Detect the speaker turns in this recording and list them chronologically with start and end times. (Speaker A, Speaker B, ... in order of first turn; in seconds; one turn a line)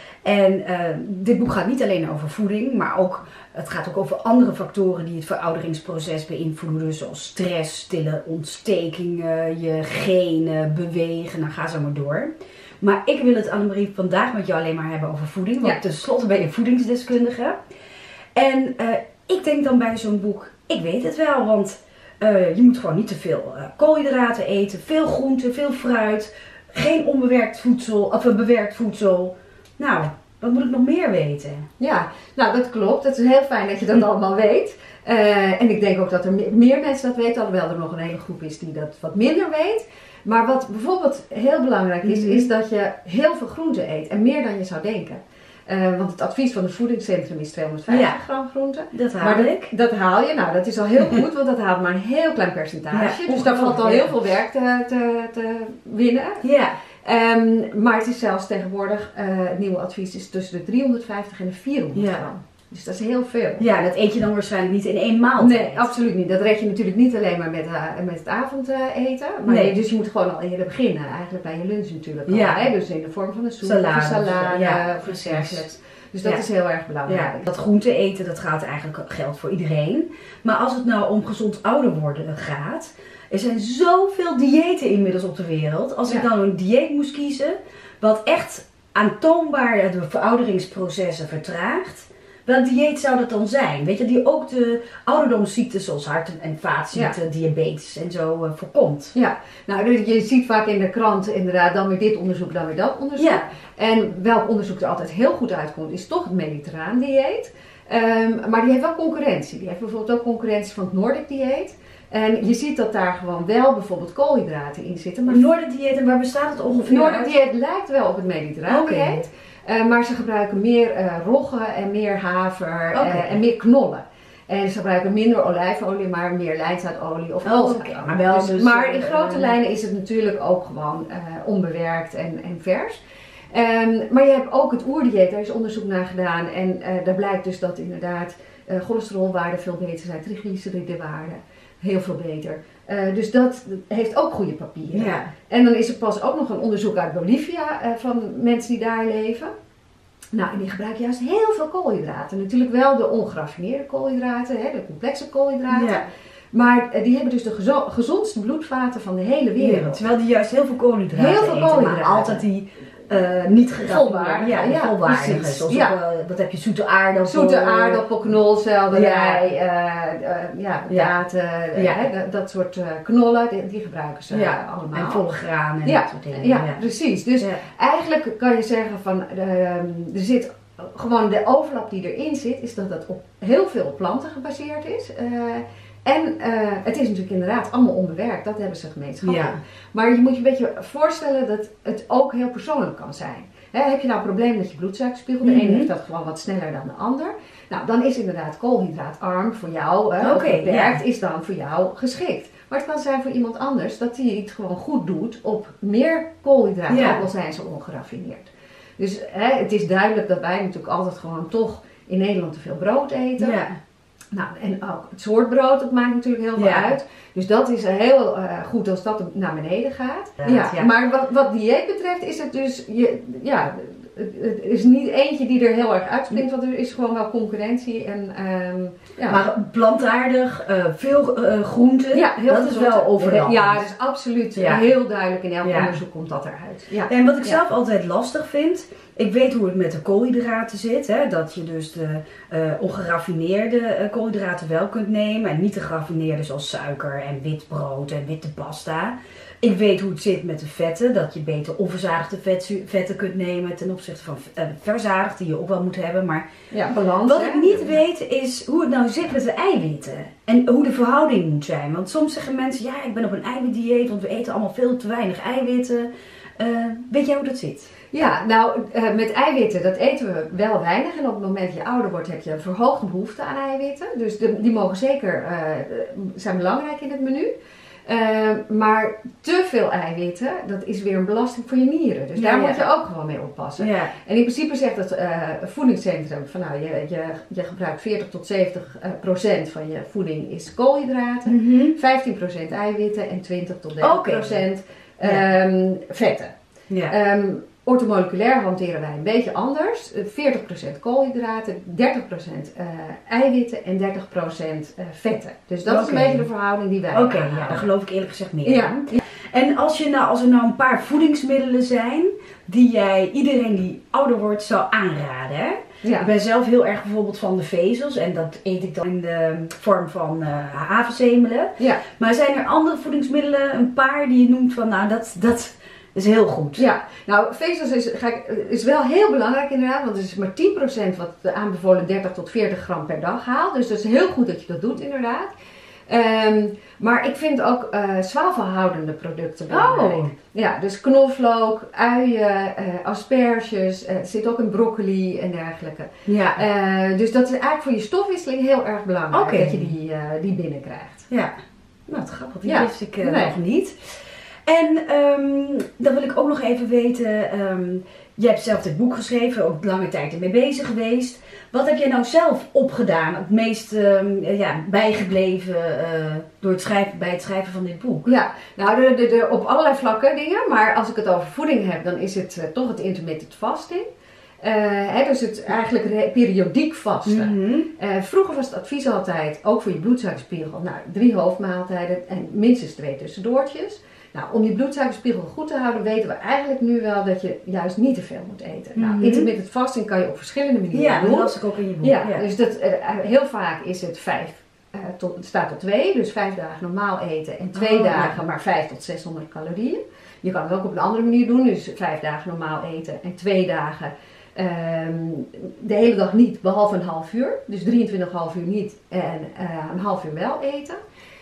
Speaker A: 0.2-17.6
Speaker A: 18.3-31.7
Speaker B: 31.8-56.5
Speaker A: 42.0-42.5
Speaker A: 47.9-48.2
Speaker A: 48.9-49.7
Speaker A: 52.9-54.1
Speaker A: 56.4-56.8
Speaker B: 57.0-63.6
Speaker A: 62.0-62.2
Speaker A: 63.6-65.9
Speaker B: 65.3-77.5
Speaker A: 69.4-69.7
Speaker A: 72.3-72.7
Speaker A: 73.6-75.7
Speaker A: 77.1-99.1
Speaker B: 99.1-115.5
Speaker A: 103.2-103.5
Speaker A: 115.3-117.4
Speaker B: 116.8-133.0
Speaker A: 118.7-119.2
Speaker A: 122.9-123.4
Speaker A: 127.4-129.6
Speaker B: 133.5-149.5
Speaker A: 144.9-145.3
Speaker B: 150.3-156.0
Speaker A: 155.7-156.1
Speaker B: 156.5-160.0
Speaker A: 159.6-168.0
Speaker B: 161.1-162.4
Speaker B: 163.8-166.0
Speaker B: 167.2-175.2
Speaker A: 168.9-169.5
Speaker A: 171.8-172.1
Speaker A: 174.3-176.8
Speaker B: 175.8-213.6
Speaker A: 177.4-177.6
Speaker A: 189.2-189.6
Speaker A: 195.4-195.9
Speaker A: 200.2-201.0
Speaker A: 206.9-207.2
Speaker A: 213.4-213.8
Speaker B: 214.3-229.4
Speaker A: 216.6-216.9
Speaker A: 220.4-220.9
Speaker A: 229.3-233.9
Speaker B: 232.1-237.6
Speaker A: 234.6-234.9
Speaker A: 235.6-236.0
Speaker A: 237.1-256.5
Speaker B: 256.7-258.0
Speaker A: 257.2-267.9
Speaker B: 268.1-277.5
Speaker B: 278.1-296.5
Speaker A: 282.4-282.8
Speaker A: 283.8-284.1
Speaker A: 291.4-291.9
Speaker A: 294.0-294.6
Speaker B: 297.1-307.9
Speaker A: 305.9-306.4
Speaker A: 307.1-326.9
Speaker B: 308.6-309.2
Speaker B: 316.0-316.3
Speaker B: 326.8-335.5
Speaker B: 336.1-351.2
Speaker A: 339.7-340.3
Speaker A: 346.2-346.6
Speaker A: 349.3-349.9
Speaker A: 351.3-351.6
Speaker A: 352.1-354.1
Speaker B: 352.6-353.6
Speaker A: 354.7-368.3
Speaker B: 368.2-374.1
Speaker B: 374.6-411.0
Speaker A: 377.2-377.9
Speaker A: 388.9-389.5
Speaker A: 390.9-392.4
Speaker A: 397.7-398.4